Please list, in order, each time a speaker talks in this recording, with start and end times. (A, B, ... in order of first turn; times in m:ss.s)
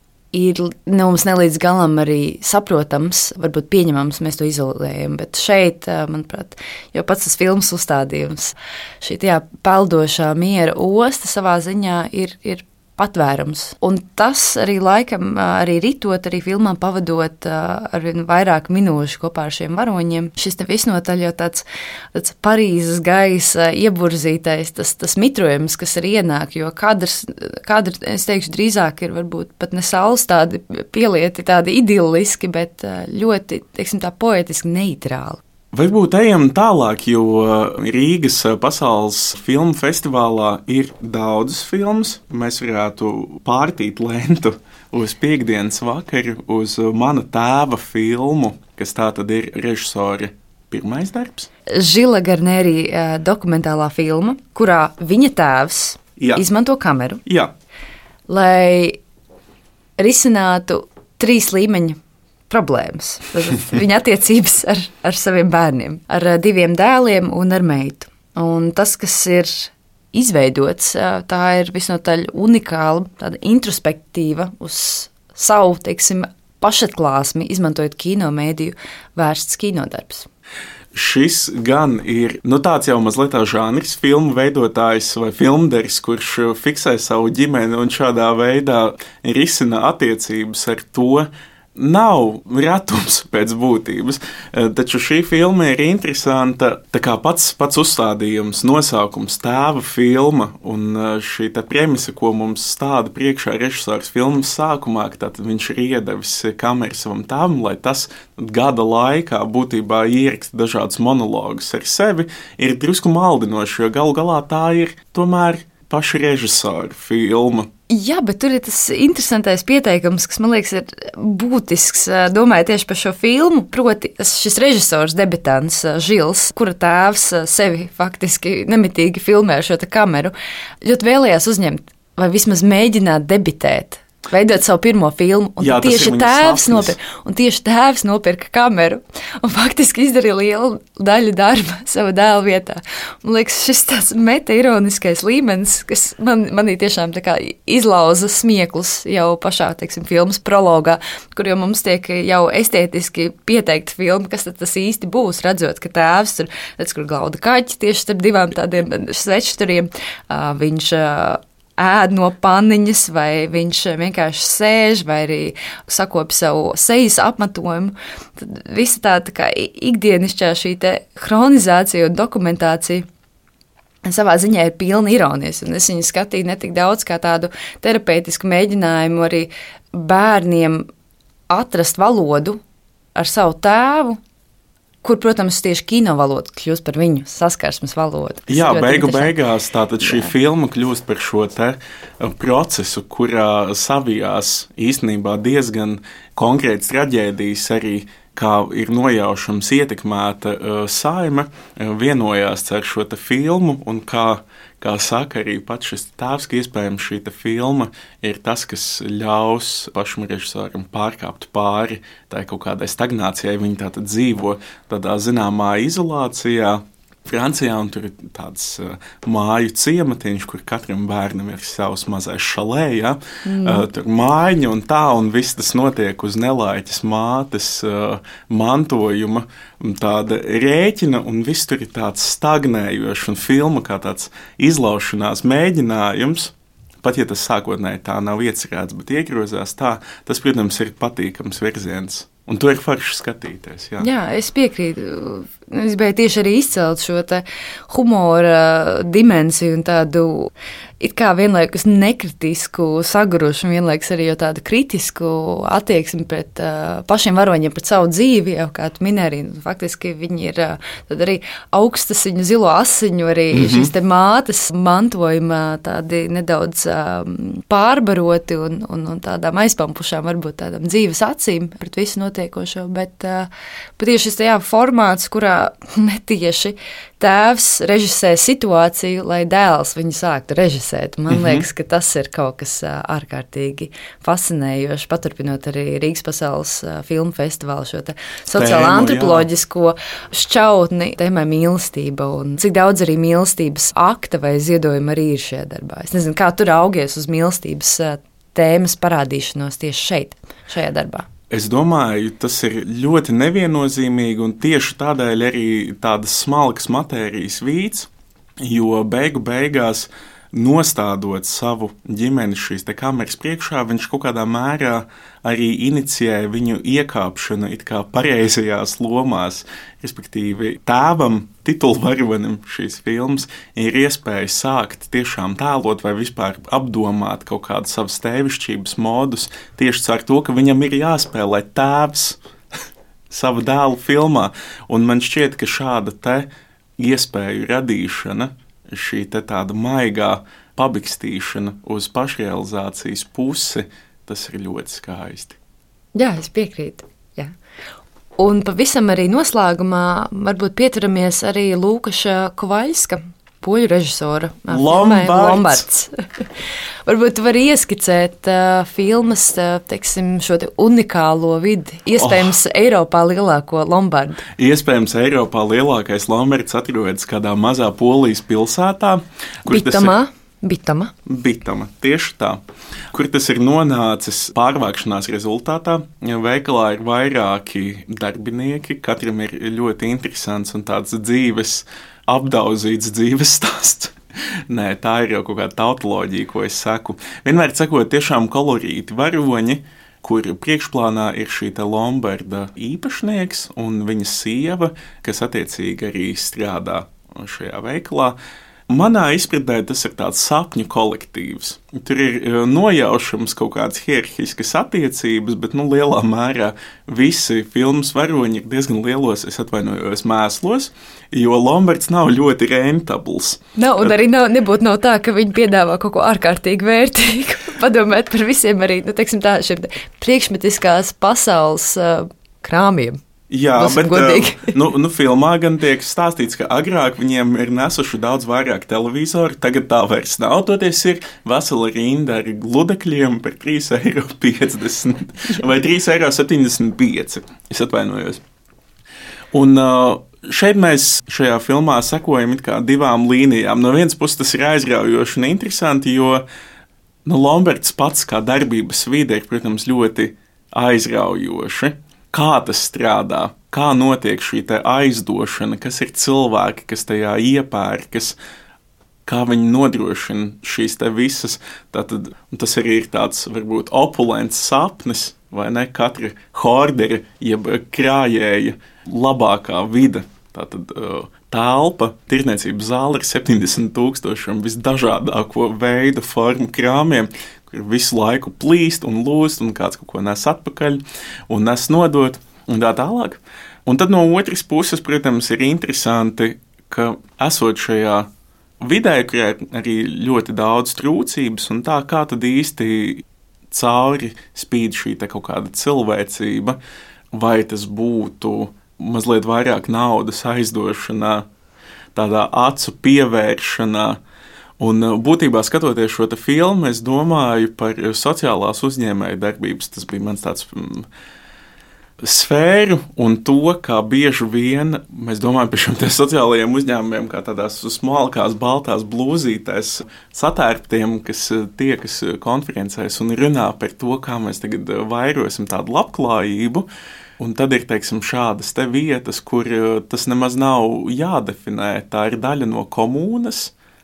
0:00.3-0:35.4 A
0:35.7-0:51.5 B
0:51.7-0:57.2 A
0:56.2-0:56.4 B
0:57.2-0:57.5 B
0:58.3-0:59.0 A
1:00.0-1:02.0 A
1:02.5-1:20.3 A
1:20.9-1:57.7 B
1:57.9-2:10.3 A
2:10.8-2:53.0 A
2:15.6-2:17.0 B
2:54.0-3:00.9 A
3:01.5-3:02.6 A
3:03.1-3:04.2 A
3:05.0-3:09.4 A
3:08.5-4:04.1 B
3:10.0-3:10.3 A
3:43.4-3:43.9 A
4:04.0-5:01.2 A
4:23.5-4:23.9 B
4:41.3-4:41.7 B
4:48.5-4:49.5 B
5:01.5-5:08.1 B
5:08.6-5:32.4 B
5:33.3-5:45.6 B
5:46.1-5:47.5 A
5:48.4-5:56.4 A
5:54.7-5:55.9 B
5:57.1-6:04.4 A
6:02.2-6:02.6 B
6:04.6-6:10.2 B
6:09.7-6:11.1 A
6:11.2-6:12.6 B
6:13.1-6:24.1 B
6:24.7-6:38.4 B
6:38.9-6:54.2 B
6:53.8-7:03.2 A
7:03.5-7:18.4 B
7:03.8-7:04.8 A
7:19.5-7:26.4 B
7:27.2-7:38.4 B
7:39.2-8:08.3 B
8:08.8-8:16.8 B
8:17.3-8:21.5 B
8:22.1-8:24.2 B
8:24.8-8:31.1 B
8:32.2-8:46.9 B
8:47.4-8:53.7 B